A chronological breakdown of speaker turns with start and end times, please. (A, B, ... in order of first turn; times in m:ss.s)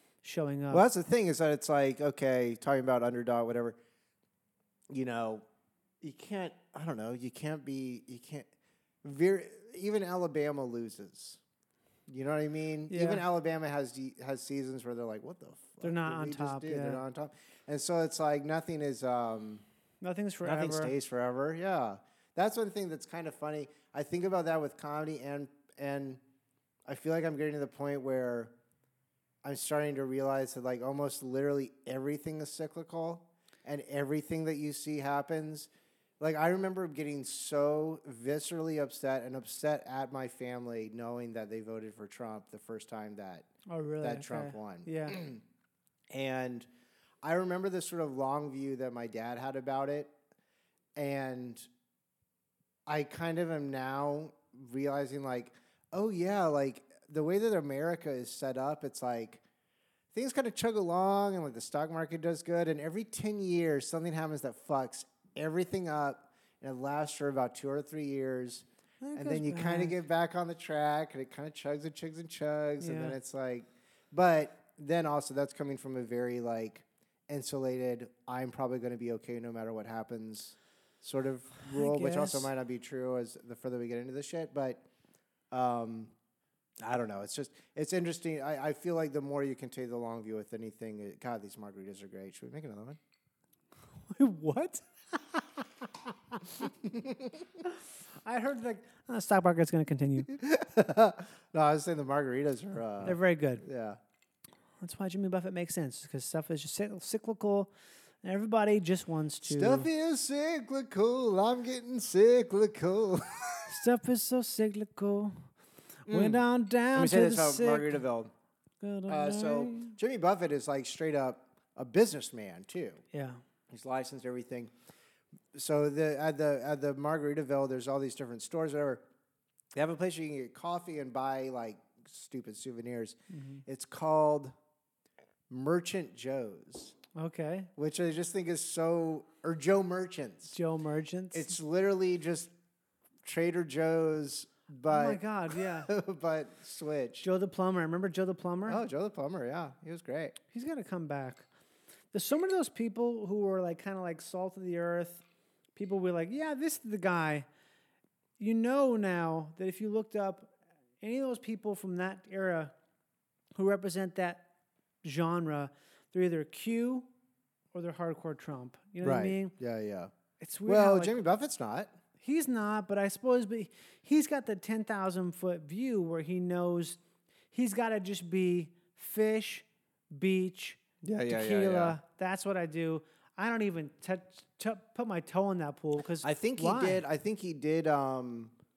0:00.2-0:00.8 A
0:00.7-0:03.8 B
0:04.9-0:05.4 B
0:06.0-0:08.5 B
0:09.0-0:11.4 B
0:12.1-0:19.6 B
0:12.9-0:13.2 A
0:15.8-0:17.0 A
0:20.0-0:20.9 A
0:20.4-0:26.2 B
0:26.8-0:28.5 B
0:29.4-0:35.7 B
0:36.2-0:43.5 B
0:43.7-0:45.2 A
0:44.0-0:45.4 B
0:46.1-0:46.7 B
0:47.2-0:50.1 B
0:51.0-0:51.7 B
0:52.9-0:59.4 B
1:00.1-1:24.8 B
1:09.0-1:10.0 A
1:12.8-1:13.2 A
1:21.7-1:22.5 A
1:25.5-1:26.1 B
1:26.8-1:33.0 B
1:34.1-1:36.4 A
1:36.6-1:37.4 B
1:37.6-1:40.3 A
1:40.3-1:44.0 B
1:43.0-1:43.6 A
1:44.8-1:47.7 A
1:48.2-1:49.9 A
1:49.4-1:53.7 B
1:53.7-1:55.5 A
1:56.1-1:58.0 A
1:56.1-1:58.3 B
1:58.8-1:59.9 A
1:59.1-2:03.0 B
2:03.1-2:03.4 A
2:03.7-2:04.7 B
2:05.5-2:09.0 B
2:09.7-2:14.5 B
2:13.3-2:13.6 A
2:15.5-2:16.9 B
2:17.1-2:17.7 A
2:17.8-2:20.6 B
2:20.5-2:21.5 A
2:21.3-2:22.5 B
2:23.2-2:27.3 B
2:24.9-2:25.9 A
2:27.2-2:28.8 A
2:28.7-2:30.4 B
2:30.5-2:31.5 A
2:32.1-2:35.2 A
2:35.7-2:37.4 A
2:38.4-2:42.7 A
2:43.6-2:44.4 A
2:45.0-2:47.1 A
2:47.7-2:49.5 A
2:49.0-2:50.1 B
2:50.4-2:51.2 A
2:50.6-2:51.9 B
2:52.2-2:57.0 A
2:57.5-3:07.0 A
3:01.0-3:02.0 B
3:06.2-3:08.5 B